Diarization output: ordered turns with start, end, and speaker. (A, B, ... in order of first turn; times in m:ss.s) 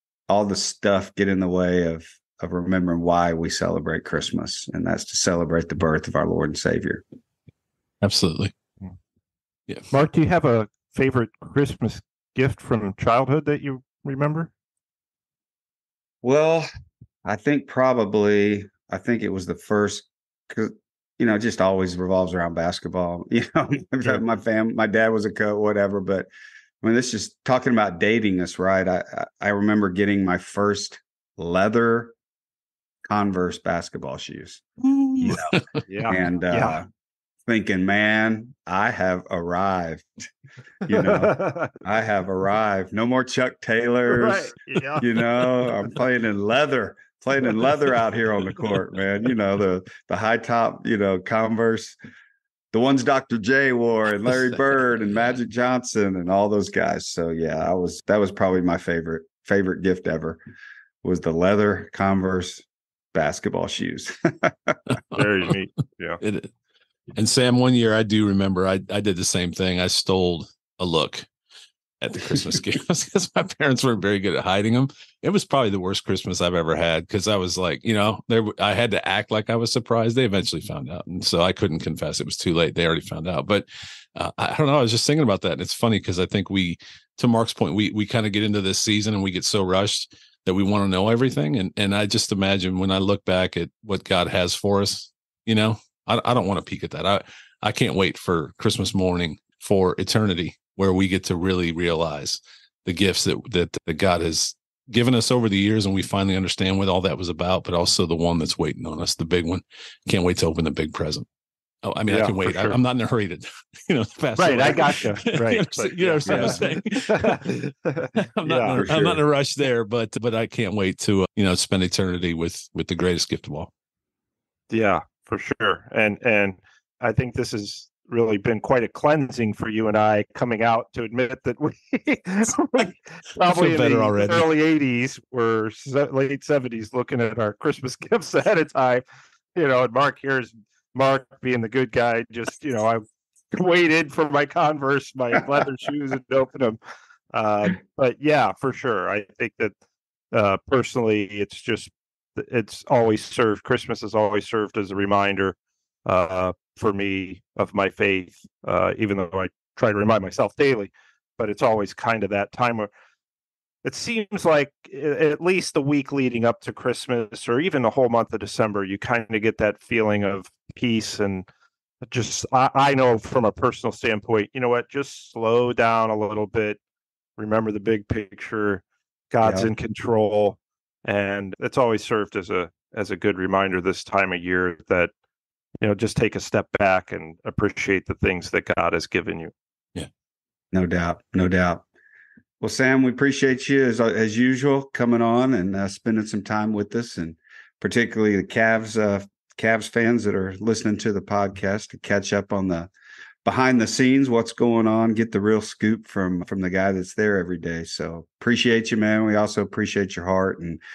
0:00.3-0:07.0 A
0:08.0-0:08.5 B
0:09.9-0:14.5 C
0:16.2-0:16.7 A
0:17.2-0:26.3 A
0:26.8-0:32.2 A
0:33.1-0:34.6 A
0:35.0-0:35.6 B
0:35.2-0:36.9 A
0:35.9-0:36.8 C
0:37.5-0:40.3 A
0:40.9-0:52.0 A
0:40.9-0:41.7 C
0:44.1-0:45.1 C
0:52.7-1:00.4 A
1:01.0-1:04.8 A
1:05.1-1:06.2 C
1:06.2-1:06.5 B
1:07.1-1:11.3 B
1:12.0-1:51.3 B
1:51.8-1:57.6 B
1:52.1-1:52.8 C
1:54.4-1:58.8 C
1:56.3-1:56.6 A
1:58.4-2:03.7 B
1:58.7-1:59.2 A
2:04.7-2:19.0 C
2:13.5-2:14.5 B
2:19.6-2:26.8 C
2:27.3-2:29.7 C
2:30.3-2:42.9 C
2:43.8-2:51.5 C
2:52.0-2:56.8 C
2:57.4-3:05.1 C
2:59.4-2:59.7 A
3:05.8-3:09.5 C
3:10.7-3:11.8 A
3:12.6-3:22.9 A
3:23.4-3:30.8 A